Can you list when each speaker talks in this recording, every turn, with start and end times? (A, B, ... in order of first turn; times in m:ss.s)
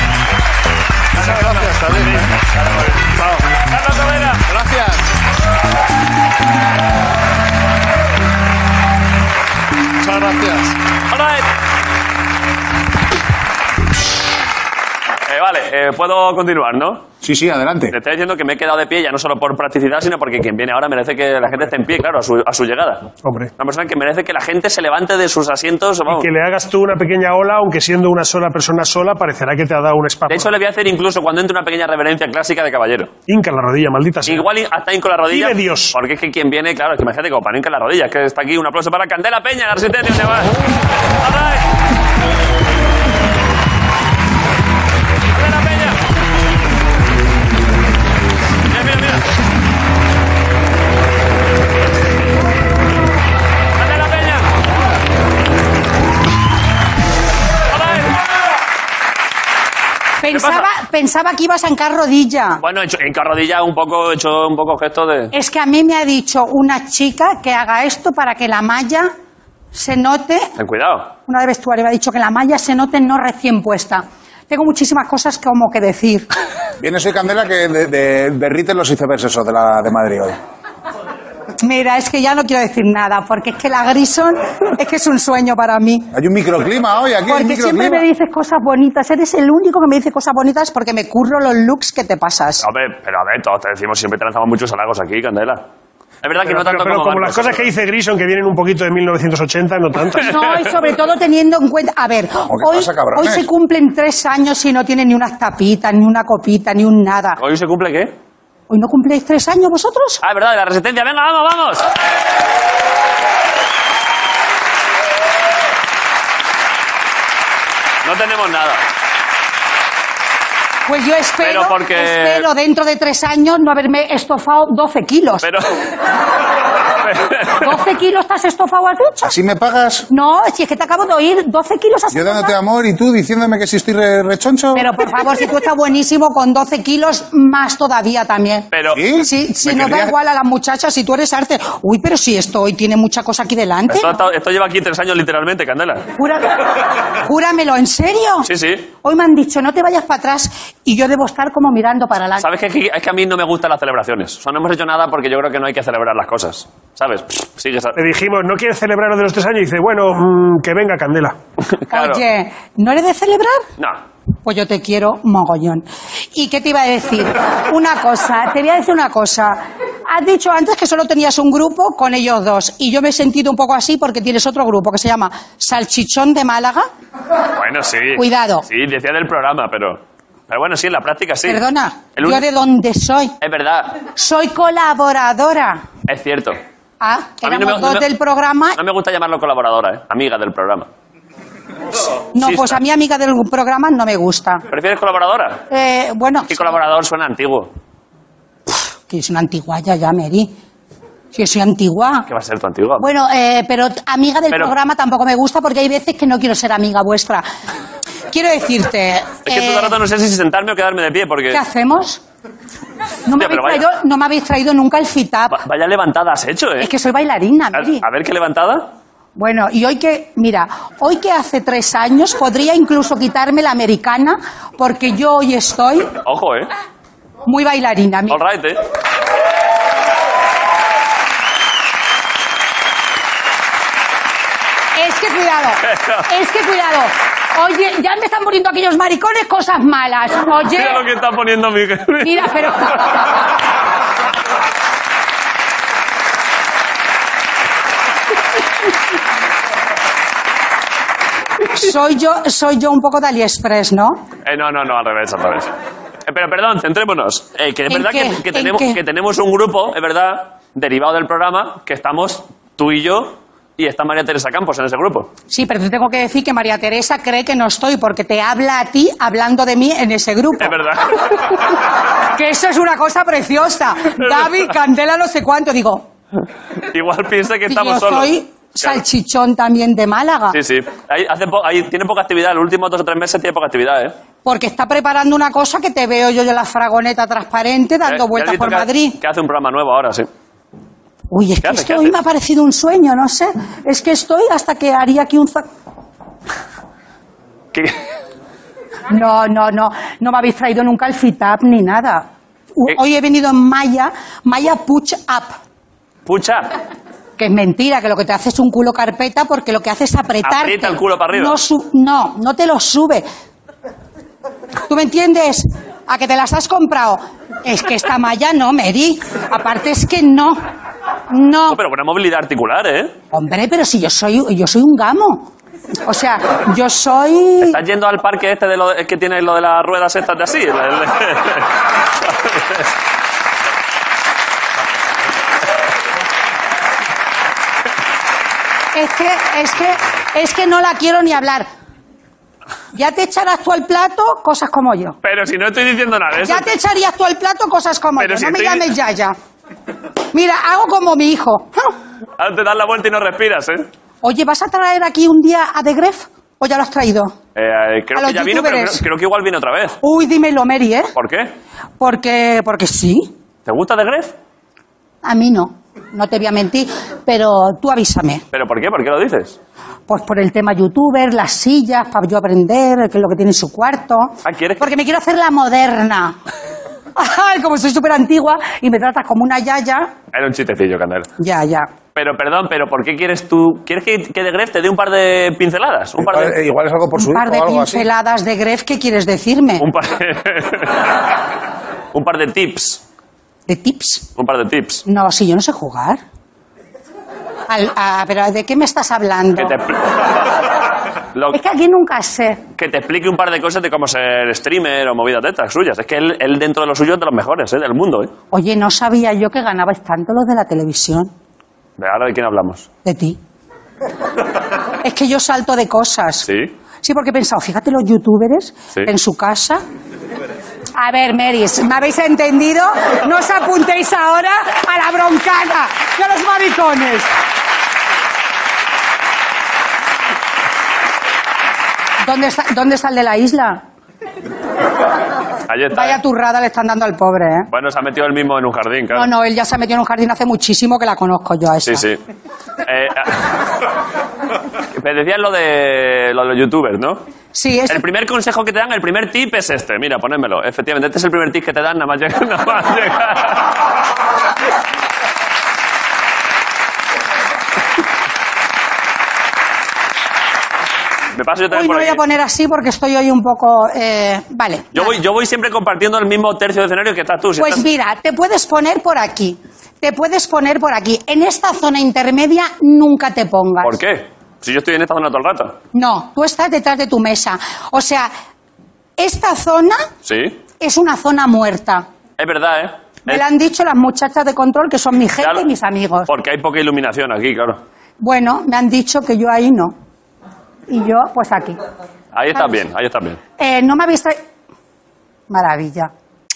0:01.1-0:02.3 A
0:01.1-0:04.4 B
0:03.2-0:03.5 A
0:04.5-0:05.1 A
0:10.0-0:10.8 A
0:11.1-0:11.5 B
0:15.3-0:17.0 B
0:17.2-0:18.0 C
0:17.9-0:26.3 B
0:23.2-0:23.5 D
0:26.1-0:30.5 D
0:30.3-0:33.1 B
0:33.3-0:34.5 D
0:34.3-0:40.5 B
0:35.3-0:36.0 D
0:41.2-0:41.6 B
0:45.3-0:46.0 B
0:48.7-0:49.2 B
0:53.8-0:54.5 B
0:57.7-0:58.2 B
1:00.2-1:02.6 E
1:00.3-1:00.7 B
1:02.6-1:05.3 B
1:05.3-1:09.1 E
1:09.7-1:10.5 E
1:10.6-1:11.1 B
1:11.3-1:16.3 E
1:16.8-1:20.4 C
1:21.6-1:26.1 E
1:26.1-1:28.0 C
1:27.3-1:32.6 E
1:32.6-1:35.6 B
1:36.2-1:37.7 B
1:36.4-1:40.4 D
1:40.2-1:47.4 E
1:40.2-1:40.5 B
1:42.5-1:43.5 C
1:47.4-1:48.1 B
1:48.7-1:50.2 E
1:50.2-1:51.9 B
1:58.0-1:58.8 B
2:00.9-2:05.5 E
2:01.4-2:02.5 B
2:05.4-2:05.7 B
2:07.0-2:07.7 B
2:07.6-2:09.4 E
2:09.2-2:10.1 C
2:10.1-2:12.6 E
2:12.1-2:14.9 C
2:14.7-2:24.2 E
2:18.7-2:19.0 B
2:18.9-2:20.2 C
2:23.9-2:26.1 B
2:26.2-2:28.5 E
2:28.4-2:28.9 B
2:29.0-2:32.5 E
2:32.4-2:38.0 B
2:38.0-2:41.4 D
2:41.7-2:42.2 B
2:41.9-2:43.6 E
2:44.4-2:56.9 E
2:57.6-3:01.6 B
2:58.2-2:58.7 E
3:01.5-3:03.4 E
3:02.2-3:02.4 B
3:03.4-3:04.0 B
3:04.1-3:05.8 E
3:06.1-3:06.6 B
3:07.0-3:08.8 E
3:07.4-3:08.1 B
3:08.8-3:10.9 B
3:12.4-3:14.6 E
3:12.4-3:12.8 B
3:14.7-3:15.6 B
3:15.7-3:16.8 E
3:16.5-3:17.7 B
3:18.7-3:20.5 E
3:21.3-3:22.3 E
3:22.3-3:23.1 B
3:23.0-3:27.5 E
3:28.3-3:30.0 E
3:29.4-3:31.6 B
3:31.5-3:32.2 E
3:33.3-3:35.6 E
3:33.3-3:33.9 B
3:35.5-3:36.9 B
3:36.8-3:38.0 E
3:37.7-3:38.9 B
3:39.4-3:46.1 E
3:46.2-3:46.7 B
3:47.5-3:48.4 E
3:48.3-3:48.8 B
3:55.0-4:01.0 E
3:55.8-3:56.3 B
4:00.7-4:02.6 B
4:02.2-4:03.2 E
4:11.7-4:14.2 E
4:14.4-4:15.7 B
4:16.3-4:25.3 B
4:17.9-4:19.0 E
4:25.5-4:30.8 E
4:30.6-4:31.6 B
4:32.3-4:36.1 E
4:34.3-4:34.6 B
4:36.8-4:39.0 B
4:37.7-4:40.6 E
4:40.5-4:44.2 B
4:44.4-4:49.2 E
4:48.0-4:50.3 B
4:51.3-4:55.7 E
4:51.6-4:52.2 B
4:59.1-5:05.6 E
5:06.3-5:06.7 B
5:07.4-5:13.3 E
5:10.4-5:11.6 B
5:14.9-5:20.6 E
5:21.3-5:21.8 E
5:21.7-5:23.1 B
5:23.3-5:25.5 E
5:26.1-5:27.8 E
5:27.6-5:31.7 B
5:32.2-5:32.9 B
5:38.9-5:41.7 E
5:42.9-5:45.2 E
5:45.2-5:46.7 B
5:46.4-5:49.4 E
5:48.2-5:48.9 B
5:50.3-5:52.0 E
5:52.4-5:53.9 B
5:54.2-5:57.4 E
5:57.6-6:00.0 B
5:58.2-5:59.0 E
6:00.0-6:01.1 E
6:01.1-6:01.5 B
6:02.0-6:03.3 E
6:03.7-6:04.4 B
6:05.2-6:08.4 E
6:08.5-6:09.6 B
6:10.1-6:16.4 E
6:14.4-6:14.9 B
6:17.2-6:20.1 E
6:20.3-6:21.3 B
6:21.4-6:21.9 E
6:22.2-6:26.6 B
6:26.2-6:28.1 C
6:27.2-6:29.8 E
6:29.8-6:31.1 B
6:32.1-6:33.0 B
6:33.7-6:34.3 E
6:34.4-6:35.0 B
6:35.1-6:36.2 E
6:37.7-6:39.8 E
6:39.6-6:40.2 B
6:41.3-6:41.6 B
6:41.5-6:42.6 E
6:42.8-6:48.3 B
6:48.5-6:51.3 E
6:52.0-6:52.9 B
6:53.0-6:53.4 E
6:55.0-6:56.5 E
6:56.5-6:56.7 B
6:57.0-6:59.8 E
7:01.0-7:07.3 E
7:12.2-7:13.8 E
7:15.7-7:16.2 B
7:15.9-7:17.7 E
7:17.7-7:19.3 B
7:19.1-7:22.1 E
7:21.8-7:22.2 B
7:22.8-7:23.5 B
7:25.0-7:27.2 B
7:27.5-7:28.0 E
7:27.9-7:33.6 B
7:41.3-7:42.2 B
7:41.7-7:45.2 E
7:44.9-7:47.9 B
7:47.6-7:54.0 E
7:53.8-7:55.8 B
7:55.9-7:58.3 E
7:59.2-8:00.1 E
8:00.2-8:00.6 B
8:00.8-8:02.1 E
8:02.4-8:03.4 B
8:03.3-8:06.3 E
8:05.4-8:05.7 B
8:06.3-8:07.8 B
8:08.2-8:10.0 E
8:10.9-8:11.8 E
8:12.3-8:13.4 B
8:13.6-8:14.4 E
8:15.5-8:16.1 E